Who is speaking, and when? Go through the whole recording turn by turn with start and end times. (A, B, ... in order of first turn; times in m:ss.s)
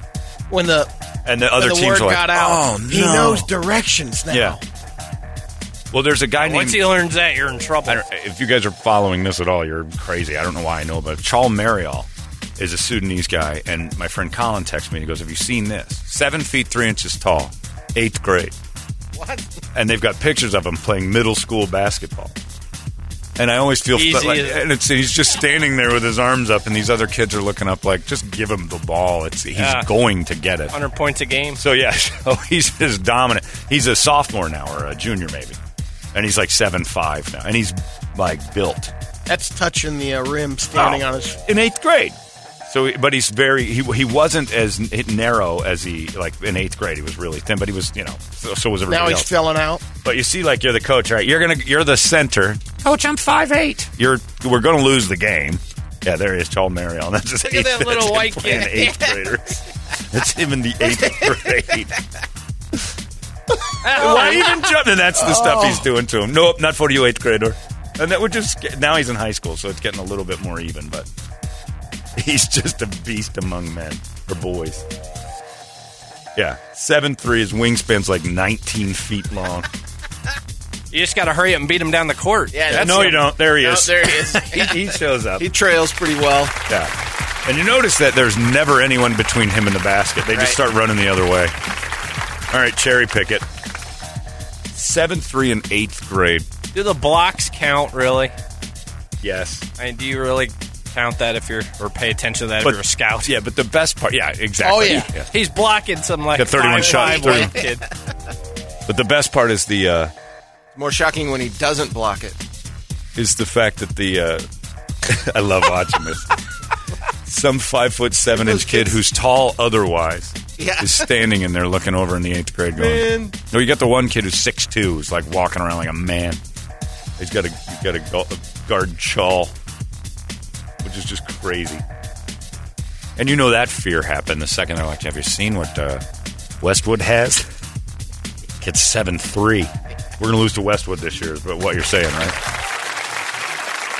0:00.5-0:00.9 A
0:01.2-0:03.5 B
0:01.5-0:04.6 A
0:04.3-0:04.6 B
0:05.9-0:06.8 B
0:06.4-0:08.0 C
0:07.8-0:18.5 B
0:19.1-0:19.5 D
0:19.7-0:22.3 B
0:23.4-0:30.8 B
0:23.9-0:24.7 C
0:29.6-0:29.9 C
0:30.7-0:31.6 C
0:31.6-0:35.6 B
0:36.1-0:38.9 B
0:39.3-0:41.4 A
0:40.7-0:42.2 B
0:42.7-0:49.3 B
0:48.9-0:49.8 A
0:50.0-1:02.0 B
0:57.4-0:59.0 C
1:03.8-1:04.6 C
1:03.9-1:11.1 B
1:12.2-1:14.8 B
1:16.4-1:19.7 B
1:20.9-1:23.1 C
1:22.5-1:26.5 D
1:22.7-1:25.5 B
1:26.7-1:26.9 B
1:27.4-1:31.5 B
1:30.3-1:30.6 D
1:32.5-1:33.4 B
1:34.7-1:36.5 B
1:36.7-1:38.3 C
1:39.2-1:39.6 B
1:39.8-1:43.3 C
1:42.6-1:45.3 B
1:44.6-1:45.1 A
1:44.8-1:47.9 C
1:46.3-1:47.5 B
1:46.8-1:47.6 D
1:48.9-1:50.1 B
1:50.7-1:52.4 D
1:53.2-1:54.5 B
1:55.0-1:56.4 B
1:57.3-2:06.4 B
1:58.3-1:59.0 D
2:00.6-2:01.1 D
2:02.8-2:03.4 D
2:07.2-2:09.5 B
2:10.8-2:11.8 B
2:13.2-2:16.0 B
2:16.6-2:17.4 B
2:18.6-2:22.4 B